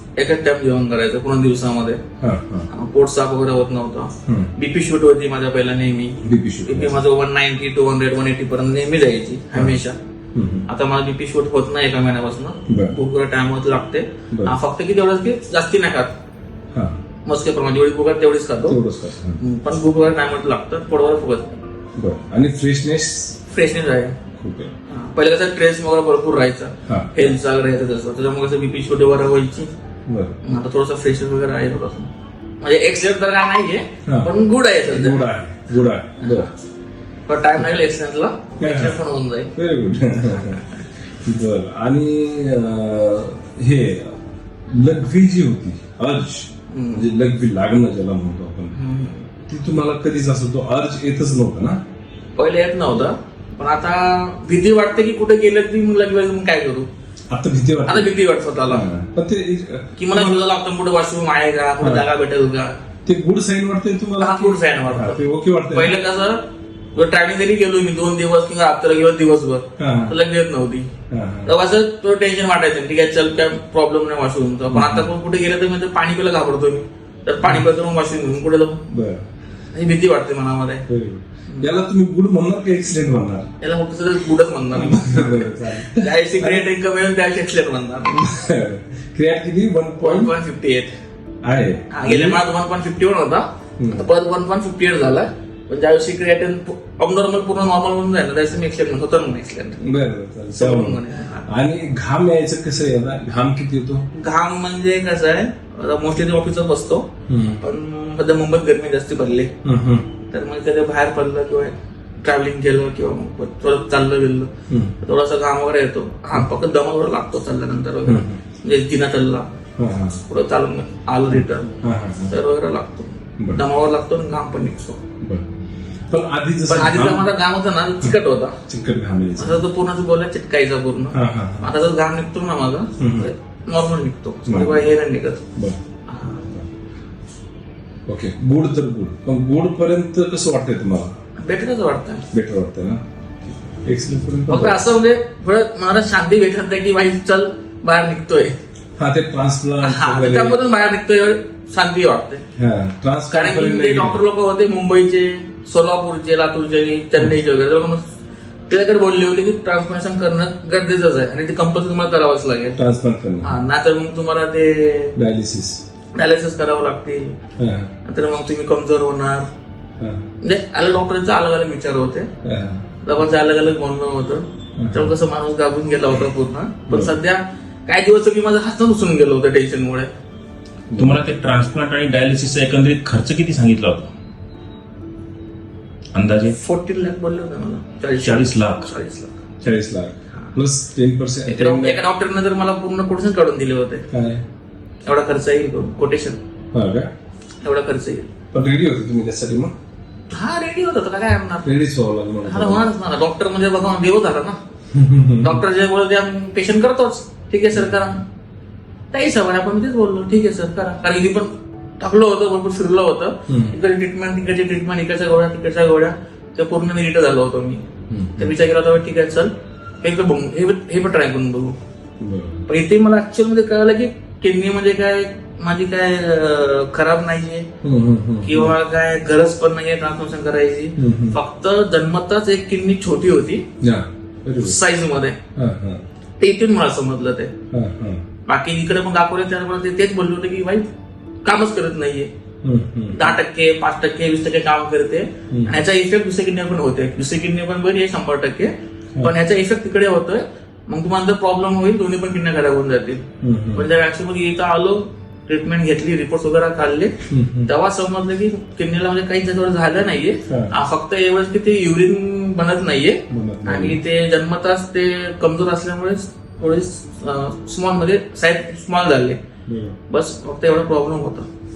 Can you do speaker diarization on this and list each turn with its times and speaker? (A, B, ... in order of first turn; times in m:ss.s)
0:00.2-0:02.0 A
0:02.2-0:02.7 B
0:02.7-0:10.0 A
0:04.3-0:04.5 B
0:06.2-0:07.0 B
0:10.4-0:10.7 B
0:10.7-0:16.1 A
0:12.7-0:13.0 B
0:16.7-0:17.0 B
0:17.3-0:18.8 A
0:18.7-0:19.4 B
0:19.4-0:21.6 A
0:22.0-0:23.4 B
0:23.5-0:24.2 A
0:24.4-0:24.7 B
0:24.9-0:29.7 A
0:26.9-0:27.3 B
0:30.1-0:30.4 B
0:30.4-0:35.2 A
0:34.9-0:36.5 B
0:36.2-0:36.5 A
0:37.3-0:39.5 A
0:38.6-0:39.0 B
0:39.5-0:44.2 B
0:44.7-0:48.8 B
0:46.7-0:47.1 A
0:48.7-0:49.3 A
0:49.5-0:51.8 B
0:52.4-0:56.9 A
0:57.3-0:58.1 B
0:57.9-0:58.8 A
0:58.7-1:00.4 B
1:00.0-1:02.8 A
1:03.0-1:06.0 B
1:04.2-1:06.4 A
1:07.0-1:10.9 A
1:09.8-1:10.1 B
1:11.1-1:11.5 B
1:11.4-1:18.8 A
1:14.7-1:15.1 B
1:18.9-1:19.3 B
1:19.7-1:20.8 A
1:20.9-1:23.5 B
1:23.6-1:28.2 A
1:24.7-1:26.6 B
1:28.1-1:30.3 B
1:30.0-1:30.9 A
1:31.4-1:32.4 B
1:31.9-1:39.8 A
1:33.8-1:34.0 B
1:39.8-1:44.1 B
1:40.5-1:41.5 A
1:44.1-1:47.1 A
1:47.3-1:47.6 B
1:47.6-1:49.5 A
1:49.6-1:50.1 B
1:50.3-1:54.5 A
1:54.7-1:55.0 B
1:55.0-1:59.5 A
1:58.1-1:58.4 B
1:59.8-2:00.2 B
2:00.3-2:05.0 A
2:01.8-2:02.4 B
2:06.1-2:07.3 B
2:06.7-2:08.6 A
2:08.0-2:09.6 B
2:09.4-2:15.4 A
2:11.1-2:11.7 B
2:13.0-2:13.3 B
2:14.5-2:14.9 B
2:15.6-2:15.8 B
2:16.1-2:16.4 A
2:18.1-2:21.2 B
2:21.4-2:22.3 A
2:22.3-2:23.0 B
2:23.8-2:24.8 B
2:24.5-2:28.5 A
2:29.0-2:30.6 B
2:29.8-2:32.4 A
2:32.6-2:34.2 B
2:33.3-2:38.0 A
2:38.7-2:42.8 A
2:42.8-2:43.6 B
2:43.4-2:45.2 A
2:45.2-2:45.8 B
2:46.1-2:47.4 A
2:47.6-2:47.9 B
2:48.0-2:49.5 A
2:50.0-2:50.3 B
2:50.4-2:52.3 A
2:52.4-2:52.8 B
2:53.0-3:00.1 A
2:54.8-2:55.1 B
2:56.9-2:57.2 B
3:00.9-3:01.2 B
3:01.0-3:04.1 C
3:06.1-3:06.6 C
3:06.5-3:09.4 A
3:08.2-3:08.8 C
3:09.6-3:12.0 B
3:11.4-3:14.0 A
3:14.1-3:14.4 B
3:15.0-3:16.4 A
3:16.7-3:17.1 B
3:17.6-3:18.3 A
3:18.5-3:19.8 B
3:20.3-3:21.7 A
3:21.6-3:22.9 B
3:22.4-3:24.6 A
3:24.9-3:25.6 B
3:25.4-3:28.2 A
3:29.1-3:37.8 A
3:33.5-3:33.8 B
3:38.1-3:38.5 B
3:38.4-3:39.5 A
3:40.0-3:41.8 A
3:42.2-3:42.7 B
3:42.7-3:47.7 A
3:47.8-3:48.8 B
3:48.4-3:53.6 A
3:51.0-3:51.4 B
3:53.8-3:54.8 B
3:54.6-3:55.4 A
3:55.6-3:56.0 B
3:56.4-3:57.5 A
3:57.7-3:58.2 B
3:58.5-4:00.9 A
4:01.4-4:02.3 A
4:02.6-4:03.4 B
4:03.1-4:17.1 A
4:05.5-4:05.8 B
4:13.4-4:13.9 B
4:17.3-4:17.7 B
4:17.7-4:29.4 A
4:20.5-4:20.7 B
4:23.3-4:24.0 B
4:29.7-4:30.0 B
4:30.1-4:31.5 A